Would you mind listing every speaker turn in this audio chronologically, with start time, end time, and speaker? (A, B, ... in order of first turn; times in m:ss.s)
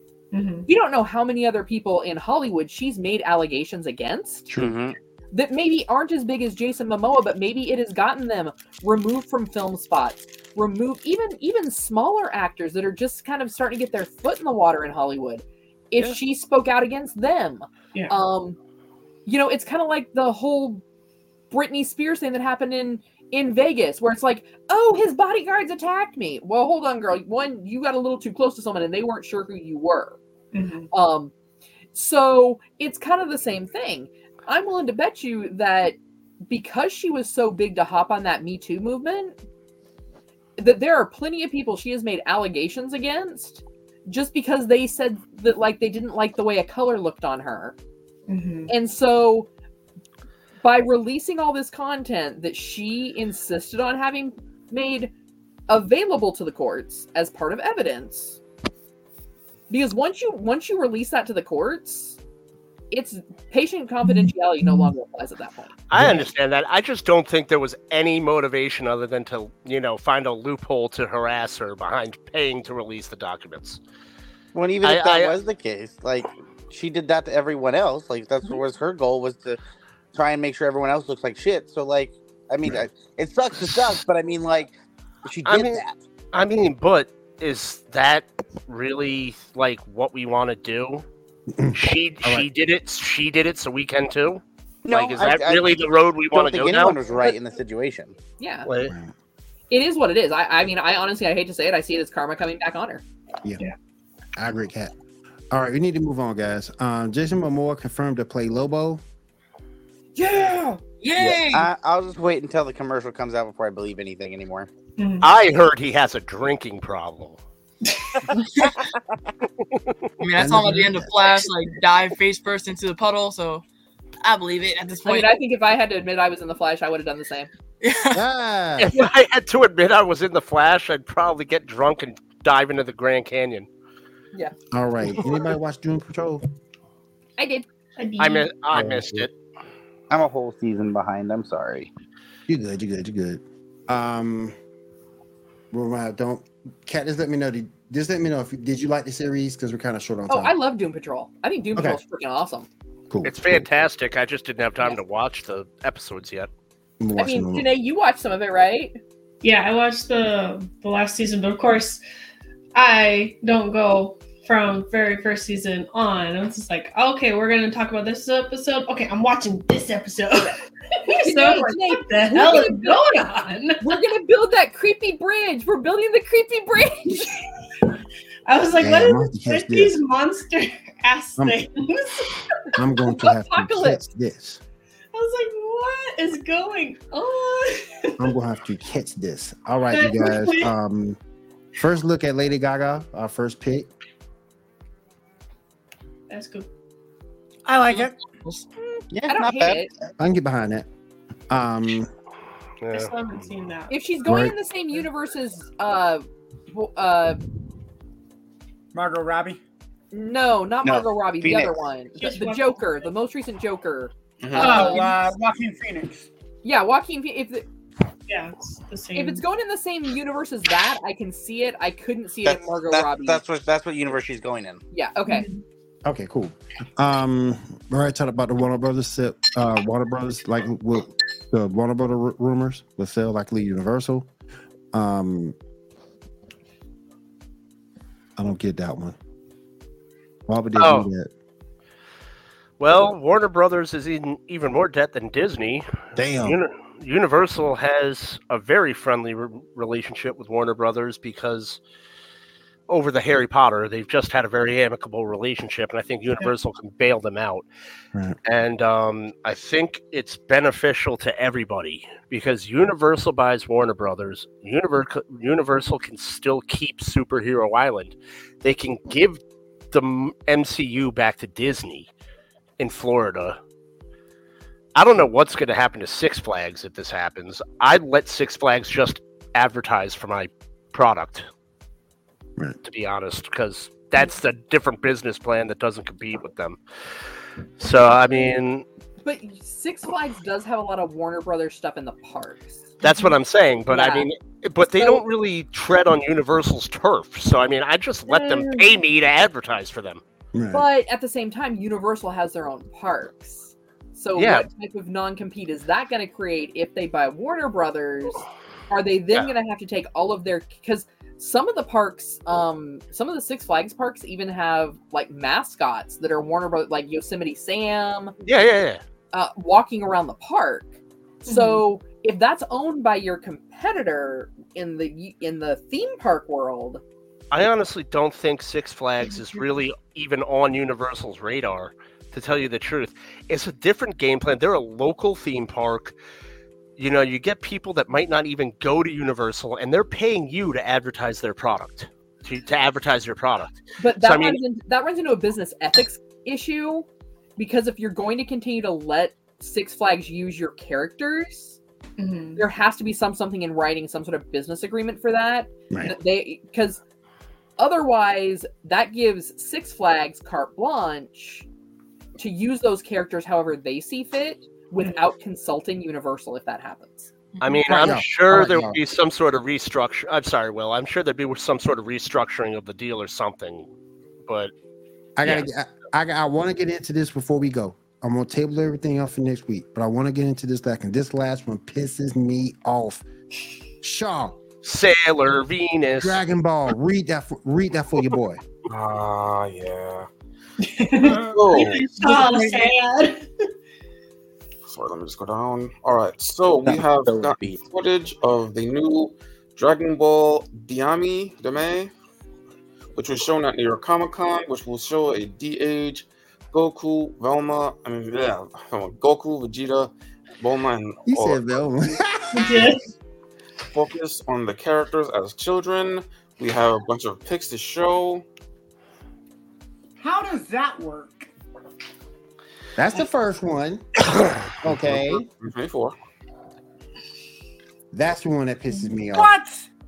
0:00.3-0:00.7 A
0:00.7-0:04.5 B
0:04.5-0:05.0 C
0:05.3-0:18.6 B
0:19.2-0:20.8 B
0:21.5-0:30.2 B
0:30.5-0:30.9 A
0:30.9-0:31.3 B
0:31.9-0:36.0 B
0:36.5-0:39.3 B
0:40.6-0:47.7 B
0:48.3-0:48.7 A
0:48.7-0:49.5 B
0:50.6-0:55.1 B
0:55.7-0:58.4 B
0:59.7-1:02.2 B
1:02.9-1:05.7 B
1:04.1-1:04.9 A
1:05.9-1:13.8 D
1:05.9-1:06.3 E
1:14.5-1:19.6 C
1:14.8-1:15.3 D
1:20.1-1:24.7 C
1:25.2-1:26.0 C
1:25.4-1:25.8 D
1:26.3-1:31.0 D
1:31.5-1:32.5 E
1:31.7-1:37.0 D
1:34.8-1:38.1 C
1:38.4-1:38.7 B
1:38.6-1:38.9 D
1:38.8-1:39.1 E
1:39.7-1:43.0 B
1:44.4-1:44.9 E
1:45.5-1:49.0 E
1:50.2-1:50.8 B
1:51.0-1:51.7 F
1:51.5-1:54.7 C
1:55.0-1:55.3 A
1:55.2-1:57.4 D
2:00.2-2:03.6 F
2:00.4-2:01.5 E
2:04.2-2:05.3 F
2:05.0-2:07.5 B
2:07.8-2:08.2 F
2:08.1-2:09.0 E
2:08.8-2:13.7 D
2:14.7-2:16.4 E
2:17.4-2:17.6 B
2:18.0-2:18.5 A
2:18.2-2:19.3 D
2:18.7-2:19.3 E
2:20.1-2:21.9 C
2:22.5-2:24.5 E
2:25.7-2:30.5 E
2:30.3-2:32.7 B
2:33.1-2:33.8 E
2:33.2-2:36.5 D
2:37.0-2:37.7 E
2:37.2-2:39.0 B
2:39.4-2:42.0 A
2:42.7-2:54.0 A
2:51.2-2:53.1 B
2:53.8-2:57.4 B
2:58.4-3:02.4 A
2:58.8-3:00.0 E
3:02.7-3:04.6 E
3:03.2-3:04.0 B
3:05.1-3:08.3 A
3:08.2-3:11.2 E
3:09.9-3:10.7 A
3:11.8-3:13.9 E
3:16.3-3:16.7 A
3:17.6-3:18.1 G
3:17.9-3:18.6 F
3:18.8-3:19.9 B
3:19.1-3:19.8 C
3:20.2-3:20.9 E
3:21.5-3:22.1 E
3:22.8-3:23.1 D
3:22.9-3:23.9 A
3:23.9-3:27.4 B
3:24.2-3:24.5 E
3:28.9-3:29.6 G
3:30.1-3:35.2 B
3:30.8-3:31.8 C
3:32.2-3:32.8 A
3:34.4-3:35.0 C
3:34.6-3:36.3 G
3:36.6-3:37.6 B
3:38.3-3:39.4 A
3:39.1-3:43.4 B
3:42.4-3:44.8 C
3:44.9-3:45.5 B
3:45.3-3:45.6 A
3:46.0-3:54.3 E
3:54.9-3:55.6 E
3:58.4-3:59.2 E
4:00.5-4:01.3 E
4:00.8-4:01.1 D
4:02.8-4:05.8 D
4:06.2-4:06.6 E
4:06.4-4:11.8 D
4:12.9-4:17.6 D
4:18.4-4:29.4 D
4:29.9-4:32.1 D
4:32.8-4:33.6 D
4:34.9-4:41.5 D
4:42.8-4:46.8 D
4:47.8-4:48.8 D
4:49.2-4:52.9 B
4:53.0-5:00.2 D
4:53.9-4:54.3 B
4:55.0-4:55.2 B
4:58.3-4:58.9 A
5:00.5-5:00.8 E
5:00.7-5:18.3 B
5:04.4-5:04.6 D
5:18.4-5:19.0 D
5:19.3-5:27.0 B
5:21.4-5:21.8 A
5:27.5-5:36.1 D
5:37.0-5:44.6 D
5:44.0-5:51.8 B
5:52.2-5:52.6 A
5:52.6-5:57.0 B
5:57.8-6:01.6 B
6:02.4-6:07.3 B
6:07.5-6:08.1 F
6:07.6-6:13.9 D
6:07.9-6:09.0 E
6:14.4-6:14.7 D
6:15.4-6:23.2 E
6:24.0-6:24.6 E
6:24.8-6:26.4 D
6:26.2-6:28.6 E
6:28.9-6:30.3 H
6:30.8-6:33.5 A
6:31.2-6:31.8 G
6:31.3-6:32.6 H
6:34.9-6:42.1 H
6:36.8-6:37.8 C
6:43.1-6:51.7 H
6:51.2-6:52.9 E
6:52.5-6:53.1 A
6:53.9-6:58.4 H
7:00.2-7:01.5 G
7:03.0-7:04.2 E
7:04.8-7:05.4 E
7:04.8-7:06.1 H
7:08.1-7:09.5 E
7:09.3-7:09.9 G